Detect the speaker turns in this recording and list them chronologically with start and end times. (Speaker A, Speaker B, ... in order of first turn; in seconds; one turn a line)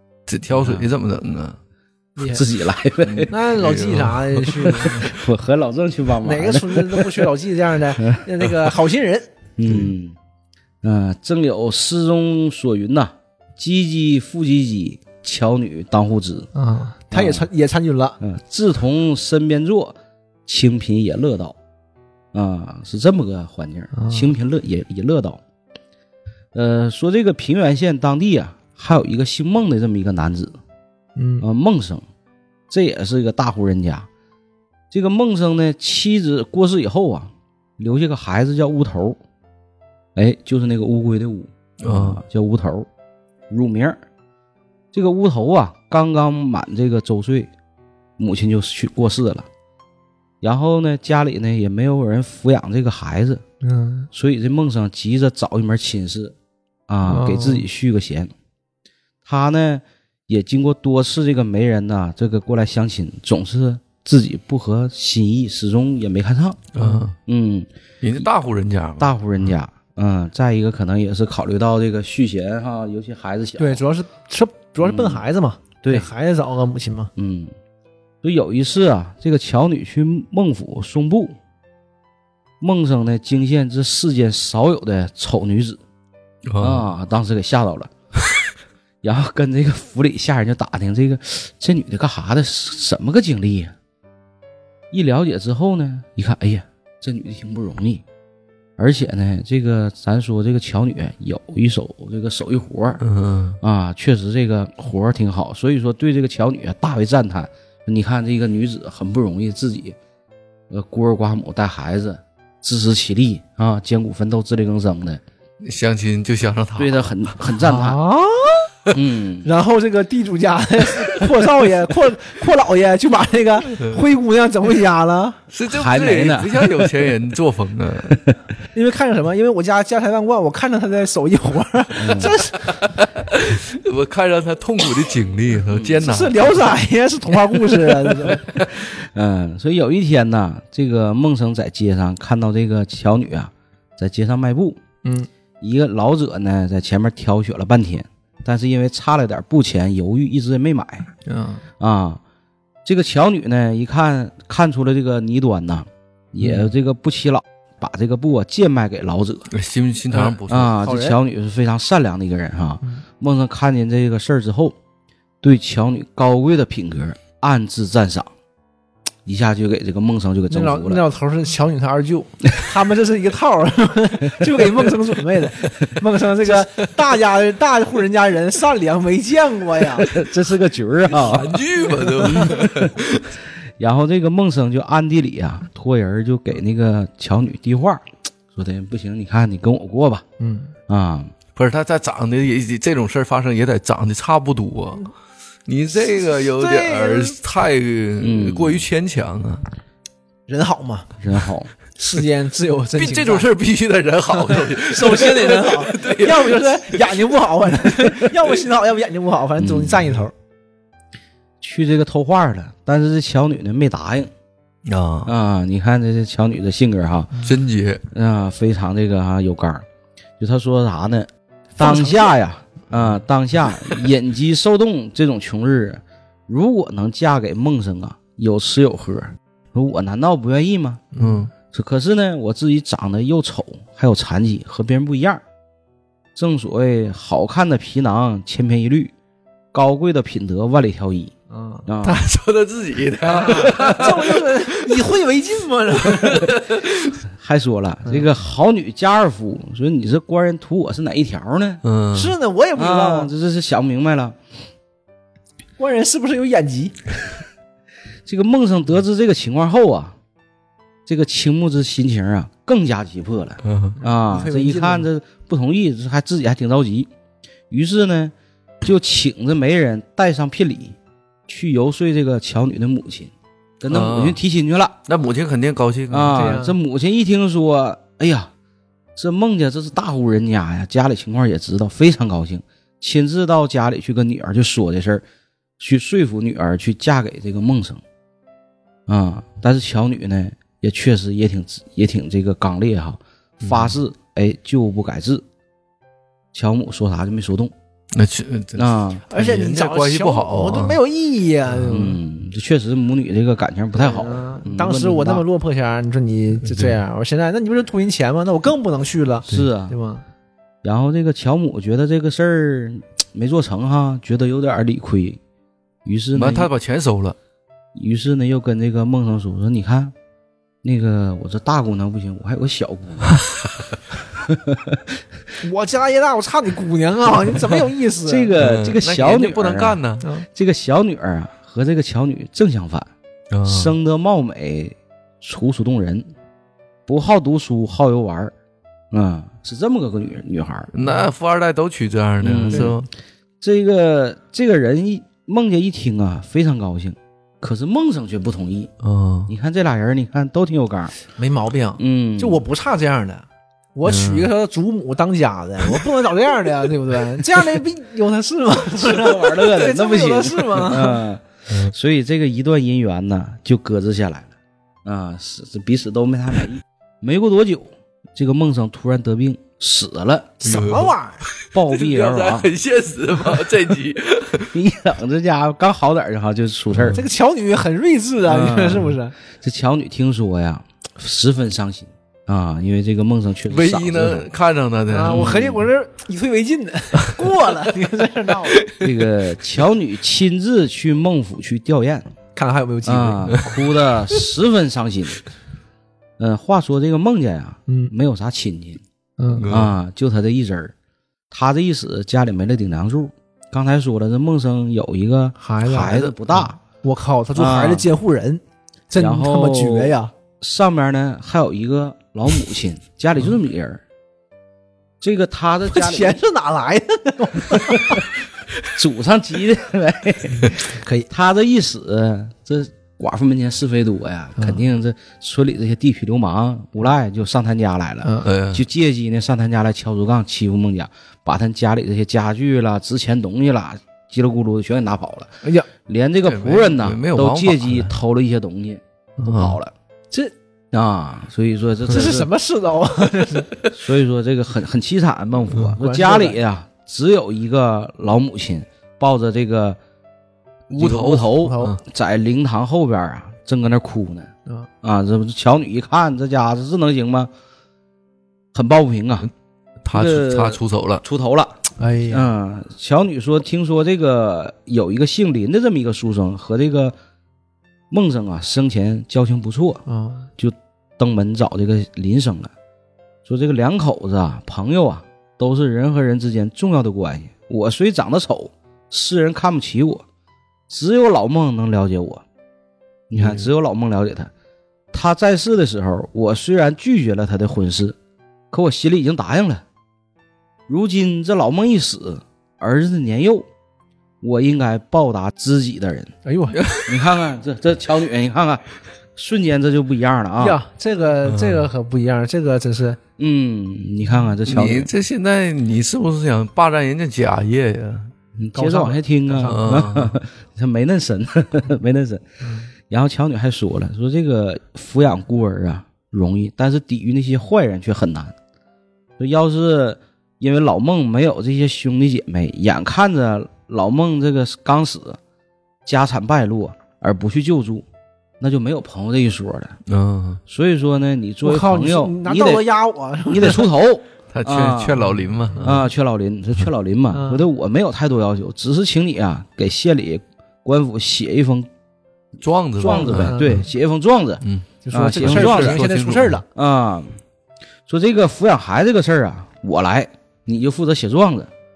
Speaker A: 0.3-1.6
Speaker B: 0.5-0.9
Speaker C: 2.2-2.4
Speaker B: 2.2-3.3
Speaker A: 3.0-4.9
Speaker C: 3.3-5.1
Speaker B: 4.8-7.2
Speaker C: 6.2-9.3
Speaker B: 8.0-8.2
Speaker B: 9.6-10.2
Speaker B: 10.8-16.5
Speaker C: 16.5-18.2
Speaker B: 17.1-17.5
Speaker B: 18.2-19.9
Speaker B: 20.5-21.6
Speaker B: 22.3-25.4
Speaker C: 23.9-24.3
Speaker B: 26.5-30.6
Speaker C: 31.1-31.4
Speaker B: 31.4-32.0
Speaker B: 32.7-34.1
Speaker B: 34.9-39.2
Speaker B: 40.1-42.9
Speaker A: 41.8-42.2
Speaker B: 43.5-44.0
Speaker B: 44.9-47.5
Speaker B: 48.2-49.5
Speaker B: 50.4-53.4
Speaker C: 53.6-54.1
Speaker B: 54.1-56.3
Speaker B: 56.9-58.3
Speaker C: 57.0-57.6
Speaker B: 59.2-66.6
Speaker A: 66.7-67.2
Speaker C: 66.8-67.1
Speaker B: 67.2-67.7
Speaker A: 68.0-69.1
Speaker B: 69.0-73.8
Speaker C: 73.6-77.1
Speaker B: 74.8-75.2
Speaker B: 75.8-76.1
Speaker B: 77.2-77.5
Speaker B: 78.2-81.3
Speaker B: 82.6-85.8
Speaker A: 86.5-86.9
Speaker B: 86.6-87.9
Speaker B: 89.0-93.7
Speaker B: 94.9-98.0
Speaker B: 98.8-103.0
Speaker A: 103.0-103.6
Speaker B: 103.6-110.0
Speaker B: 110.7-115.2
Speaker A: 115.6-117.3
Speaker B: 116.8-118.0
Speaker C: 117.6-118.9
Speaker B: 118.9-119.5
Speaker C: 119.4-125.4
Speaker A: 125.5-128.2
Speaker B: 125.7-126.7
Speaker B: 128.1-128.4
Speaker C: 128.7-132.8
Speaker B: 131.9-132.3
Speaker A: 132.7-136.6
Speaker B: 135.7-136.0
Speaker C: 136.0-138.5
Speaker A: 138.1-138.7
Speaker B: 138.6-144.8
Speaker B: 145.6-151.1
Speaker C: 151.2-151.6
Speaker B: 151.8-152.2
Speaker B: 152.8-159.5
Speaker A: 159.5-160.8
Speaker C: 160.1-161.2
Speaker B: 160.5-164.8
Speaker B: 165.4-168.3
Speaker B: 169.2-171.0
Speaker C: 170.5-180.1
Speaker B: 180.0-182.9
Speaker A: 181.1-183.4
Speaker C: 181.9-182.5
Speaker B: 183.8-190.2
Speaker C: 190.4-190.7
Speaker B: 190.9-191.3
Speaker A: 191.5-195.1
Speaker A: 195.7-199.7
Speaker C: 196.0-197.4
Speaker B: 198.2-198.8
Speaker C: 200.5-201.1
Speaker B: 201.2-201.7
Speaker C: 202.0-203.5
Speaker A: 202.9-207.3
Speaker C: 204.3-210.3
Speaker B: 209.6-210.1
Speaker B: 211.6-214.3
Speaker A: 214.8-215.3
Speaker B: 215.2-217.3
Speaker A: 217.4-218.0
Speaker B: 218.1-219.8
Speaker B: 220.4-231.0
Speaker C: 221.8-222.3
Speaker C: 231.1-231.5
Speaker A: 231.2-231.5
Speaker B: 231.7-235.4
Speaker B: 236.3-239.1
Speaker B: 239.7-241.3
Speaker C: 241.5-241.9
Speaker B: 241.8-242.2
Speaker A: 242.0-245.1
Speaker C: 243.3-246.5
Speaker B: 243.6-244.0
Speaker A: 246.0-247.2
Speaker B: 247.3-251.8
Speaker A: 251.8-252.3
Speaker C: 252.1-253.3
Speaker B: 252.8-254.4
Speaker C: 255.8-257.0
Speaker B: 258.2-260.1
Speaker B: 261.1-267.1
Speaker A: 263.6-264.0
Speaker C: 264.0-265.1
Speaker B: 267.7-271.0
Speaker B: 271.5-274.9
Speaker A: 273.9-274.4
Speaker A: 275.1-276.6
Speaker B: 276.1-278.5
Speaker C: 276.3-276.8
Speaker B: 279.1-285.2
Speaker B: 285.8-288.0
Speaker B: 289.1-295.4
Speaker A: 293.6-293.9
Speaker B: 296.5-297.7
Speaker A: 298.1-301.0
Speaker B: 298.8-299.2
Speaker C: 299.3-302.2
Speaker B: 301.8-305.4
Speaker C: 303.9-310.2
Speaker A: 306.6-307.0
Speaker B: 309.5-309.9
Speaker B: 310.8-315.4
Speaker B: 316.0-316.7
Speaker A: 316.3-317.4
Speaker B: 317.9-320.1
Speaker B: 320.8-323.4
Speaker B: 324.4-325.0
Speaker C: 325.6-328.5
Speaker B: 328.2-330.0
Speaker A: 328.6-330.2
Speaker C: 330.2-330.5
Speaker B: 330.5-333.1
Speaker A: 333.5-333.9
Speaker B: 333.6-336.3
Speaker B: 337.1-338.5
Speaker B: 339.1-340.9
Speaker A: 340.9-343.1
Speaker B: 342.4-343.0
Speaker C: 342.7-342.9
Speaker B: 343.6-348.9
Speaker A: 349.0-349.5
Speaker B: 349.5-351.2
Speaker C: 351.4-361.2
Speaker B: 352.0-352.6
Speaker A: 354.0-354.5
Speaker B: 359.0-364.5
Speaker B: 365.0-370.6
Speaker C: 370.6-371.4
Speaker A: 370.6-374.7
Speaker B: 371.7-372.7
Speaker B: 374.7-377.2
Speaker A: 376.9-377.2
Speaker C: 377.1-379.3
Speaker B: 378.4-384.5
Speaker A: 383.7-385.8
Speaker C: 385.1-388.9
Speaker B: 385.2-385.8
Speaker A: 388.6-389.1
Speaker B: 389.0-392.3
Speaker C: 392.6-393.8
Speaker B: 393.0-395.4
Speaker B: 396.4-399.0
Speaker C: 397.9-398.1
Speaker C: 399.4-399.7
Speaker A: 399.5-399.9
Speaker B: 399.7-400.9
Speaker B: 401.5-406.8
Speaker C: 405.6-410.3
Speaker B: 407.5-408.1
Speaker B: 409.2-414.0
Speaker B: 415.2-416.4
Speaker C: 415.9-418.2
Speaker B: 417.7-418.2
Speaker B: 418.9-439.9
Speaker C: 420.8-421.3
Speaker C: 428.2-428.5
Speaker A: 428.4-428.8
Speaker A: 436.4-438.1
Speaker A: 439.4-439.8
Speaker B: 440.9-442.5
Speaker C: 442.1-443.8
Speaker B: 443.9-450.0
Speaker C: 446.0-446.6
Speaker A: 450.9-452.0
Speaker B: 450.9-454.5
Speaker C: 451.5-451.9
Speaker B: 455.0-457.5
Speaker B: 458.7-459.5
Speaker A: 460.0-461.2
Speaker B: 460.1-467.1
Speaker C: 462.0-462.5
Speaker B: 468.1-470.0
Speaker C: 470.1-470.5
Speaker B: 470.6-472.7
Speaker B: 473.4-480.2
Speaker B: 480.9-482.4
Speaker B: 483.3-484.5
Speaker A: 483.3-483.7
Speaker B: 485.1-488.1
Speaker B: 488.7-489.8
Speaker B: 490.9-493.7
Speaker B: 494.4-496.3
Speaker C: 496.4-496.8
Speaker A: 496.7-497.1
Speaker B: 497.1-500.8
Speaker C: 500.6-503.2
Speaker A: 501.4-501.9
Speaker B: 503.4-505.1
Speaker A: 504.6-508.3
Speaker B: 508.6-512.4
Speaker C: 508.8-509.9
Speaker A: 509.6-510.4
Speaker C: 512.6-512.9
Speaker B: 513.1-518.5
Speaker B: 519.4-525.4
Speaker B: 526.0-528.0
Speaker B: 528.6-530.0
Speaker A: 530.1-530.6
Speaker B: 530.7-532.8
Speaker C: 531.6-533.9
Speaker B: 533.5-535.2
Speaker A: 534.5-536.0
Speaker C: 535.7-536.0
Speaker B: 535.8-541.9
Speaker C: 537.3-537.6
Speaker A: 542.6-543.9
Speaker B: 543.0-546.0
Speaker C: 543.2-543.8
Speaker A: 544.6-546.6
Speaker C: 545.0-546.6
Speaker B: 546.7-547.4
Speaker B: 548.1-551.7